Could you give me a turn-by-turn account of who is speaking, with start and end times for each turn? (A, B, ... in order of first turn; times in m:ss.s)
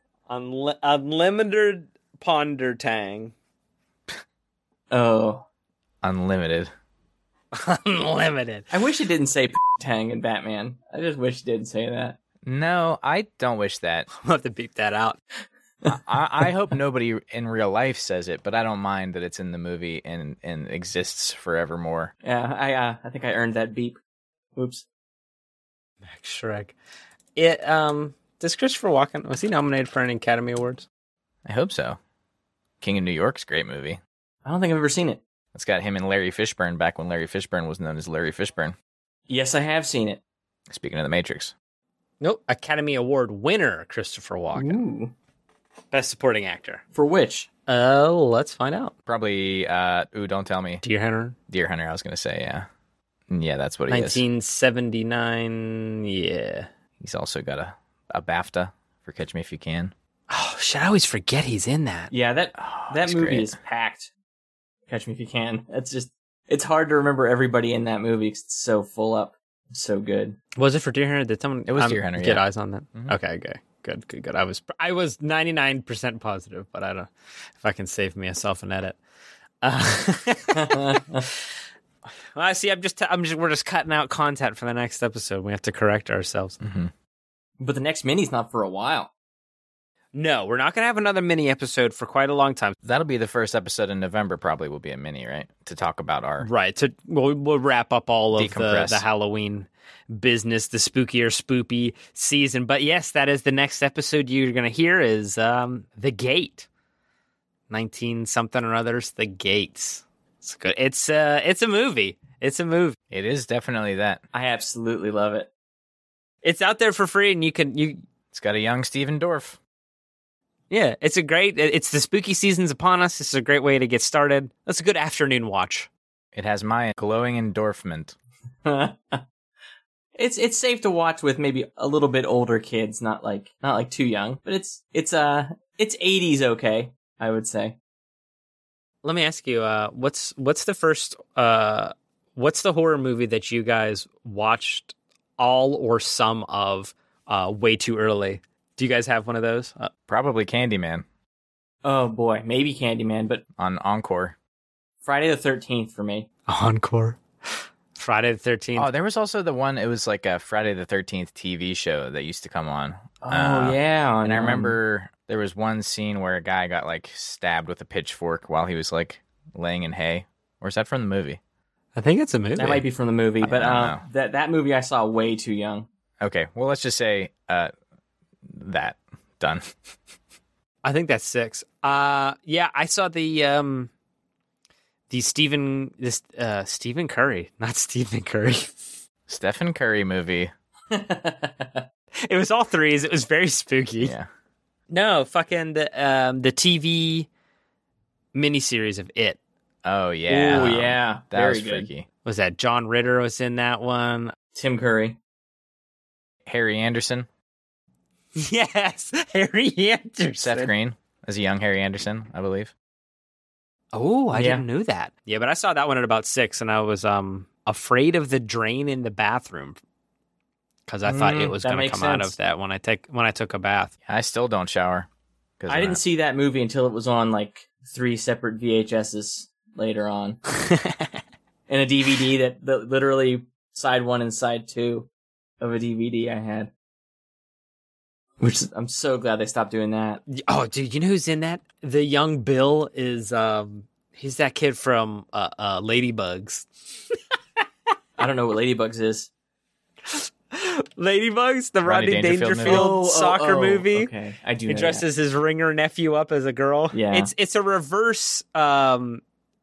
0:00.3-0:03.3 A
0:04.9-0:05.4 B
0:06.0-0:06.7 C
0:07.5-0:08.7 A
0:08.7-0:12.2 B
0:12.4-0:14.1 C
0:14.1-0:15.2 A
0:15.8-0:22.1 C
0:22.2-0:24.0 B
0:24.6-0:24.8 B
0:26.1-0:26.7 A
0:27.4-0:30.8 A
0:31.4-0:32.0 C
0:32.8-0:34.0 C
0:34.4-0:35.2 B
0:35.5-0:38.7 C
0:39.3-0:40.2 B
0:40.7-0:41.5 C
0:42.2-0:44.8 A
0:44.5-0:45.1 B
0:45.9-0:46.8 A
0:46.9-0:47.5 B
0:47.7-0:48.9 A
0:49.0-0:50.8 C
0:50.8-0:51.4 A
0:51.5-0:52.7 C
0:53.3-0:54.2 C
0:53.9-0:56.7 A
0:57.0-0:59.9 C
1:00.3-1:02.1 A
1:02.1-1:04.1 B
1:02.6-1:03.5 C
1:04.9-1:10.4 B
1:10.6-1:19.0 A
1:11.7-1:12.4 C
1:19.6-1:21.0 A
1:20.5-1:21.2 B
1:22.3-1:26.6 A
1:26.6-1:26.9 C
1:27.6-1:29.1 B
1:30.1-1:32.8 A
1:32.8-1:36.5 C
1:36.4-1:46.7 A
1:38.4-1:39.0 C
1:47.7-1:53.0 A
1:53.1-1:54.2 C
1:54.3-1:55.5 B
1:56.4-1:58.0 A
1:58.3-1:59.6 C
2:00.7-2:05.9 A
2:06.3-2:08.1 C
2:08.6-2:09.2 B
2:10.2-2:17.8 B
2:19.0-2:29.9 A
2:30.1-2:31.0 C
2:31.8-2:33.4 B
2:33.6-2:34.4 C
2:35.0-2:36.3 B
2:36.5-2:37.2 A
2:37.9-2:38.9 A
2:38.8-2:51.4 C
2:43.2-2:44.7 B
2:52.0-2:52.8 A
2:52.6-2:55.9 B
2:53.4-2:54.0 C
2:56.2-2:57.7 C
2:58.5-2:59.7 C
3:00.8-3:03.9 A
3:05.1-3:08.8 A
3:09.3-3:10.5 C
3:10.9-3:11.8 B
3:12.2-3:14.1 A
3:14.0-3:14.3 C
3:14.9-3:17.3 A
3:18.3-3:19.4 A
3:19.8-3:22.1 C
3:20.3-3:21.9 B
3:22.2-3:24.3 A
3:24.6-3:25.2 B
3:26.4-3:27.3 C
3:28.4-3:30.7 A
3:30.4-3:32.7 C
3:33.9-3:39.8 A
3:34.3-3:34.6 B
3:40.9-3:43.9 A
3:41.0-3:42.3 B
3:44.0-3:45.1 C
3:45.6-3:46.0 C
3:45.7-3:50.4 B
3:51.7-3:55.1 B
3:55.6-3:56.7 B
3:58.4-4:00.2 B
4:00.3-4:06.7 A
4:08.2-4:09.3 B
4:10.1-4:14.1 A
4:11.8-4:12.9 C
4:12.6-4:15.0 B
4:14.7-4:19.2 A
4:16.9-4:17.3 B